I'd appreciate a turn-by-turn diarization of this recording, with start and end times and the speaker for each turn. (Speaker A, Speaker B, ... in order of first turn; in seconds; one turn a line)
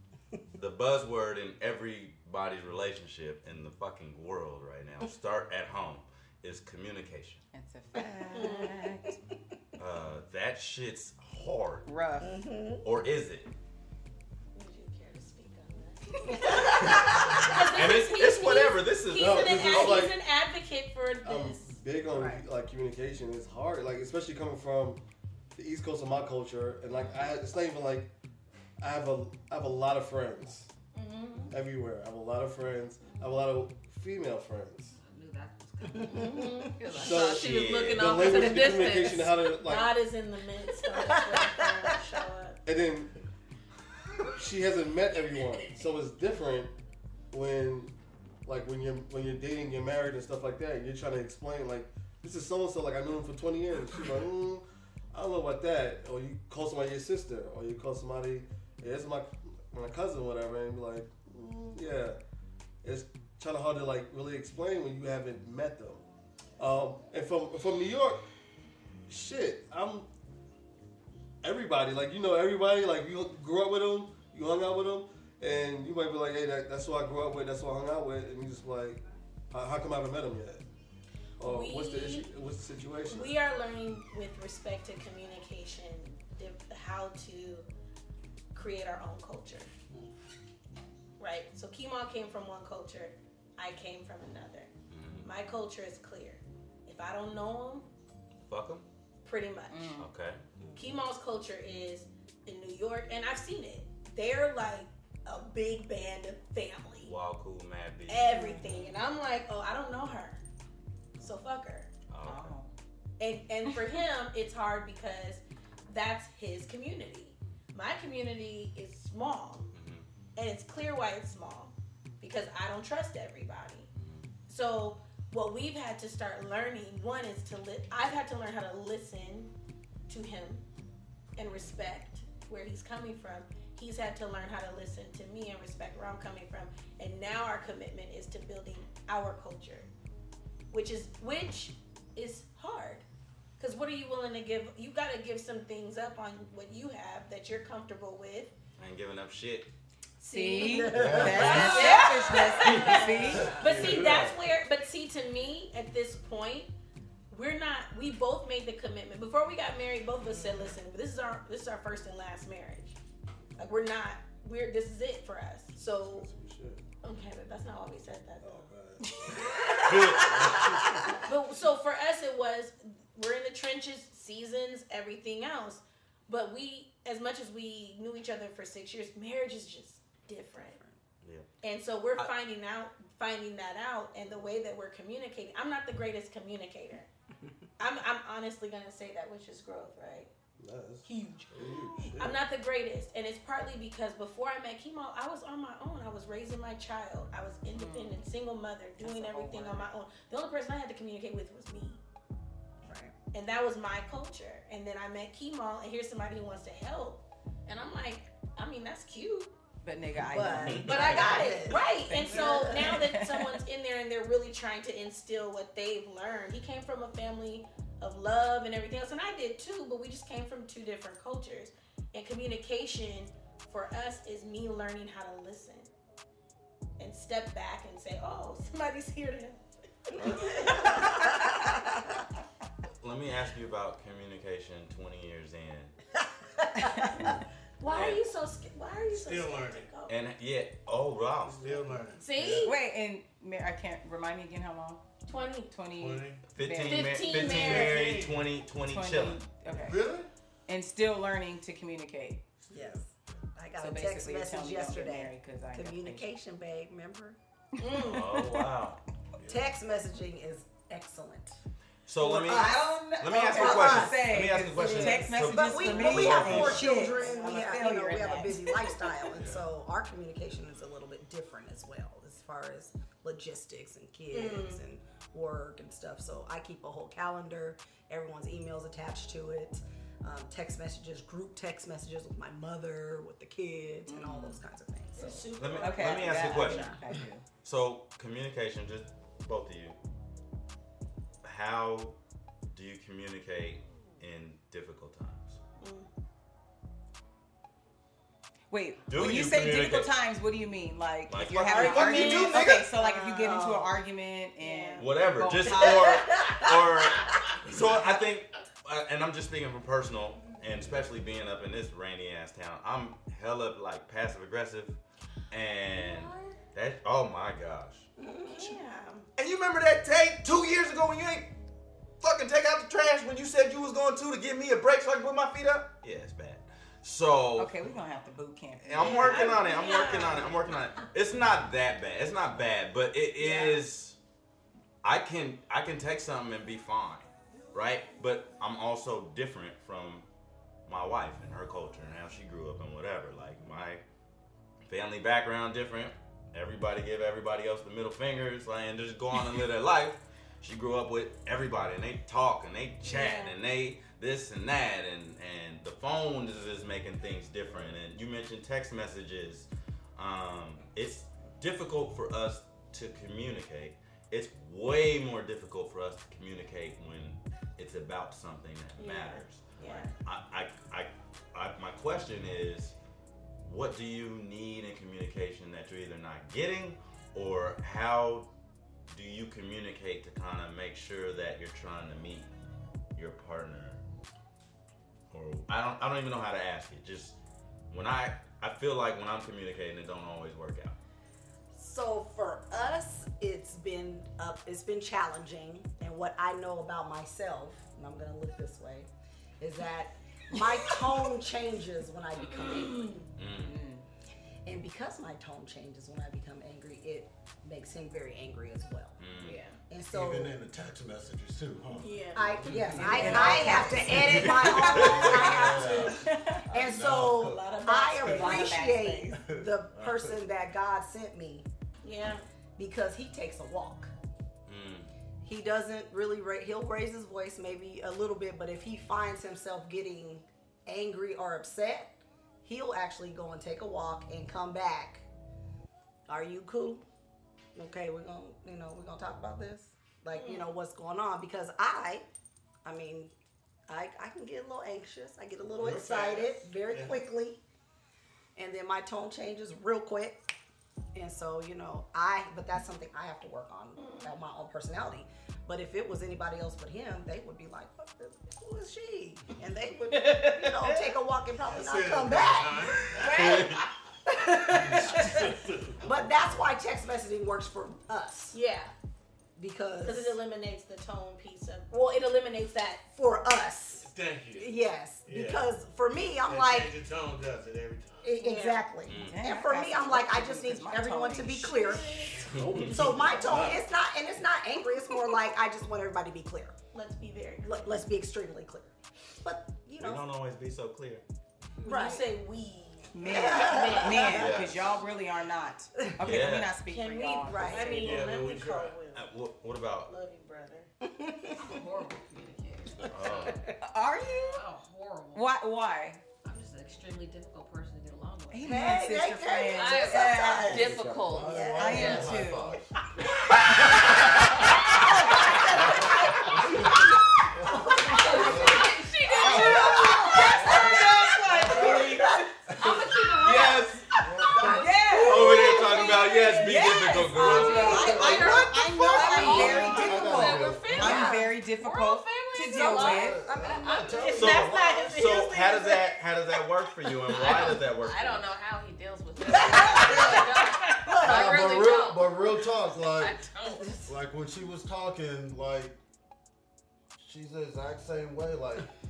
Speaker A: 0.6-7.4
Speaker B: 7.5-9.2
Speaker C: 8.3-8.7
Speaker A: 9.8-11.8
Speaker B: 11.8-12.4
Speaker D: 12.2-12.8
Speaker A: 12.8-13.5
Speaker C: 14.5-21.8
Speaker D: 16.3-17.6
Speaker A: 17.6-20.1
Speaker E: 19.2-20.1
Speaker E: 21.2-25.0
Speaker D: 22.1-22.4
Speaker E: 25.6-28.1
Speaker E: 28.8-30.7
Speaker C: 30.9-31.5
Speaker E: 31.5-35.0
Speaker F: 35.0-39.2
Speaker D: 35.9-36.7
Speaker C: 36.1-42.6
Speaker E: 36.9-40.0
Speaker A: 37.1-38.2
Speaker D: 41.0-41.6
Speaker E: 42.6-43.1
Speaker E: 44.3-46.7
Speaker F: 45.3-45.8
Speaker E: 47.3-47.9
Speaker E: 48.4-62.2
Speaker E: 62.8-66.0
Speaker E: 66.6-68.2
Speaker E: 69.1-70.1
Speaker E: 71.4-80.6
Speaker C: 81.4-82.3
Speaker E: 81.4-83.3
Speaker C: 83.0-87.7
Speaker C: 88.5-89.7
Speaker C: 91.2-94.7
Speaker A: 94.9-95.3
Speaker C: 95.2-97.8
Speaker A: 98.4-98.9
Speaker C: 99.2-99.9
Speaker B: 99.7-100.1
Speaker A: 100.0-100.4
Speaker D: 100.6-100.9
Speaker C: 100.7-107.2
Speaker A: 107.0-108.4
Speaker C: 108.1-110.4
Speaker C: 111.2-111.9
Speaker A: 112.1-112.6
Speaker B: 112.2-112.7
Speaker C: 113.2-119.7
Speaker A: 119.7-120.1
Speaker C: 120.3-123.9
Speaker A: 124.0-124.3
Speaker C: 124.5-129.5
Speaker C: 130.1-130.6
Speaker C: 131.3-139.9
Speaker C: 140.7-143.0
Speaker C: 143.6-148.5
Speaker A: 148.8-149.7
Speaker C: 150.2-156.7
Speaker B: 150.2-153.5
Speaker D: 150.6-152.3
Speaker G: 151.0-151.8
Speaker A: 152.7-153.1
Speaker D: 153.2-153.6
Speaker E: 153.4-154.4
Speaker G: 153.7-154.0
Speaker C: 157.3-163.0
Speaker C: 163.6-166.3
Speaker E: 165.8-166.8
Speaker C: 167.0-168.7
Speaker E: 168.4-171.2
Speaker B: 169.0-169.4
Speaker C: 169.5-170.6
Speaker A: 169.8-170.4
Speaker D: 170.4-170.9
Speaker C: 171.2-180.8
Speaker A: 181.2-181.5
Speaker C: 181.6-187.1
Speaker C: 187.8-190.3
Speaker E: 190.6-192.4
Speaker C: 191.0-202.0
Speaker B: 197.8-198.3
Speaker B: 199.0-199.9
Speaker D: 202.8-203.1
Speaker C: 203.3-209.5
Speaker B: 209.8-213.6
Speaker D: 210.2-213.1
Speaker A: 210.6-211.4
Speaker C: 210.8-225.9
Speaker C: 227.0-231.8
Speaker A: 230.2-230.8
Speaker A: 233.0-235.9
Speaker B: 236.8-237.2
Speaker C: 237.8-240.2
Speaker A: 237.9-238.2
Speaker H: 239.1-239.9
Speaker A: 240.1-241.7
Speaker H: 241.5-242.3
Speaker C: 242.2-242.8
Speaker G: 242.3-242.7
Speaker B: 242.6-245.0
Speaker C: 245.3-245.7
Speaker B: 245.7-248.1
Speaker H: 245.9-246.4
Speaker A: 246.5-249.4
Speaker C: 246.8-248.2
Speaker H: 247.7-248.5
Speaker B: 248.8-250.1
Speaker H: 249.6-250.3
Speaker B: 250.7-252.4
Speaker D: 252.7-257.4
Speaker B: 253.8-256.3
Speaker C: 257.8-258.4
Speaker B: 257.8-258.6
Speaker A: 258.0-259.0
Speaker H: 259.4-259.7
Speaker D: 259.4-261.6
Speaker A: 262.1-266.9
Speaker B: 262.2-269.1
Speaker D: 263.6-285.5
Speaker H: 269.3-269.6
Speaker C: 274.3-274.8
Speaker B: 284.1-284.6
Speaker C: 285.1-286.6
Speaker A: 285.5-286.8
Speaker B: 285.6-287.4
Speaker D: 286.4-287.0
Speaker A: 287.6-290.0
Speaker A: 291.4-292.2
Speaker A: 292.7-295.6
Speaker C: 295.8-296.1
Speaker B: 298.7-306.3
Speaker A: 299.1-300.1
Speaker A: 301.3-302.9
Speaker C: 301.6-303.8
Speaker D: 303.4-303.9
Speaker C: 304.6-305.1
Speaker A: 305.0-315.0
Speaker D: 306.3-306.7
Speaker A: 315.5-318.1
Speaker D: 318.2-318.8
Speaker C: 318.4-319.3
Speaker A: 319.4-321.5
Speaker A: 322.2-327.7
Speaker B: 327.6-329.6
Speaker A: 328.8-334.2
Speaker C: 328.9-330.6
Speaker C: 333.4-333.8
Speaker A: 335.0-340.2
Speaker A: 340.9-344.0
Speaker A: 344.8-372.9
Speaker C: 353.0-353.5
Speaker C: 369.0-370.1
Speaker A: 373.6-378.5
Speaker A: 379.1-382.5
Speaker A: 383.1-384.0
Speaker A: 385.3-387.4
Speaker A: 387.9-390.9
Speaker D: 391.7-399.1
Speaker D: 399.6-403.2
Speaker B: 402.5-402.8
Speaker C: 402.7-403.2
Speaker A: 403.4-403.8
Speaker B: 403.6-404.0
Speaker D: 404.6-409.2
Speaker A: 409.2-409.6
Speaker C: 409.4-409.8
Speaker D: 409.9-410.5
Speaker G: 410.1-416.2
Speaker C: 411.9-413.9
Speaker D: 412.3-421.7
Speaker B: 412.9-416.6
Speaker A: 414.6-415.2
Speaker G: 416.7-418.5
Speaker C: 416.8-418.8
Speaker B: 418.1-419.4
Speaker G: 419.5-420.4
Speaker C: 422.0-422.4
Speaker D: 422.8-424.1
Speaker A: 424.7-425.1
Speaker D: 425.4-435.2
Speaker D: 436.3-437.0
Speaker D: 437.7-442.2
Speaker C: 440.3-440.7
Speaker D: 442.8-443.3
Speaker D: 443.9-447.6
Speaker H: 445.8-447.2
Speaker D: 448.6-450.4
Speaker D: 451.1-463.6
Speaker C: 454.0-454.3
Speaker H: 461.6-463.9
Speaker C: 463.2-463.9
Speaker D: 464.3-468.6
Speaker H: 464.7-466.6
Speaker C: 464.8-465.5
Speaker C: 468.5-468.9
Speaker D: 469.6-470.4
Speaker C: 470.0-473.1
Speaker D: 473.1-476.9
Speaker H: 474.0-474.7
Speaker H: 475.2-475.7
Speaker H: 476.4-478.4
Speaker D: 478.2-486.8
Speaker C: 478.4-478.9
Speaker A: 479.1-479.4
Speaker B: 479.1-482.5
Speaker A: 482.5-483.1
Speaker E: 482.6-483.8
Speaker C: 486.9-488.0
Speaker D: 487.6-490.2
Speaker A: 490.0-491.2
Speaker C: 491.8-494.6
Speaker D: 491.8-492.2
Speaker B: 493.1-498.3
Speaker D: 493.2-494.4
Speaker A: 494.3-495.0
Speaker A: 496.2-496.8
Speaker C: 496.8-499.3
Speaker D: 497.4-498.4
Speaker H: 497.9-499.0
Speaker A: 499.1-500.1
Speaker C: 500.1-500.9
Speaker D: 501.0-501.8
Speaker F: 501.6-503.7
Speaker A: 503.1-503.6
Speaker B: 503.8-504.6
Speaker F: 504.5-505.5
Speaker B: 505.3-506.2
Speaker F: 506.4-508.9
Speaker B: 508.5-511.0
Speaker D: 508.6-512.0
Speaker F: 509.7-512.5
Speaker G: 510.8-512.9
Speaker B: 511.8-512.8
Speaker G: 513.7-514.5
Speaker D: 514.8-516.6
Speaker G: 517.5-520.1
Speaker D: 517.7-518.8
Speaker F: 518.1-524.8
Speaker C: 518.2-518.6
Speaker D: 519.4-520.9
Speaker B: 520.3-522.4
Speaker C: 520.4-522.3
Speaker G: 521.7-522.0
Speaker G: 522.8-523.3
Speaker A: 523.4-524.0
Speaker G: 524.2-524.9
Speaker C: 524.5-530.2
Speaker B: 524.6-525.8
Speaker A: 525.2-528.0
Speaker F: 525.7-526.5
Speaker B: 526.5-533.4
Speaker F: 527.4-533.3
Speaker G: 527.9-531.3
Speaker D: 531.0-531.5
Speaker C: 532.7-536.6
Speaker G: 532.8-534.9
Speaker D: 533.5-533.8
Speaker A: 534.2-538.5
Speaker F: 537.4-544.1
Speaker D: 539.5-541.6
Speaker G: 541.2-543.5
Speaker D: 543.7-544.0
Speaker G: 544.0-546.0
Speaker G: 547.2-548.9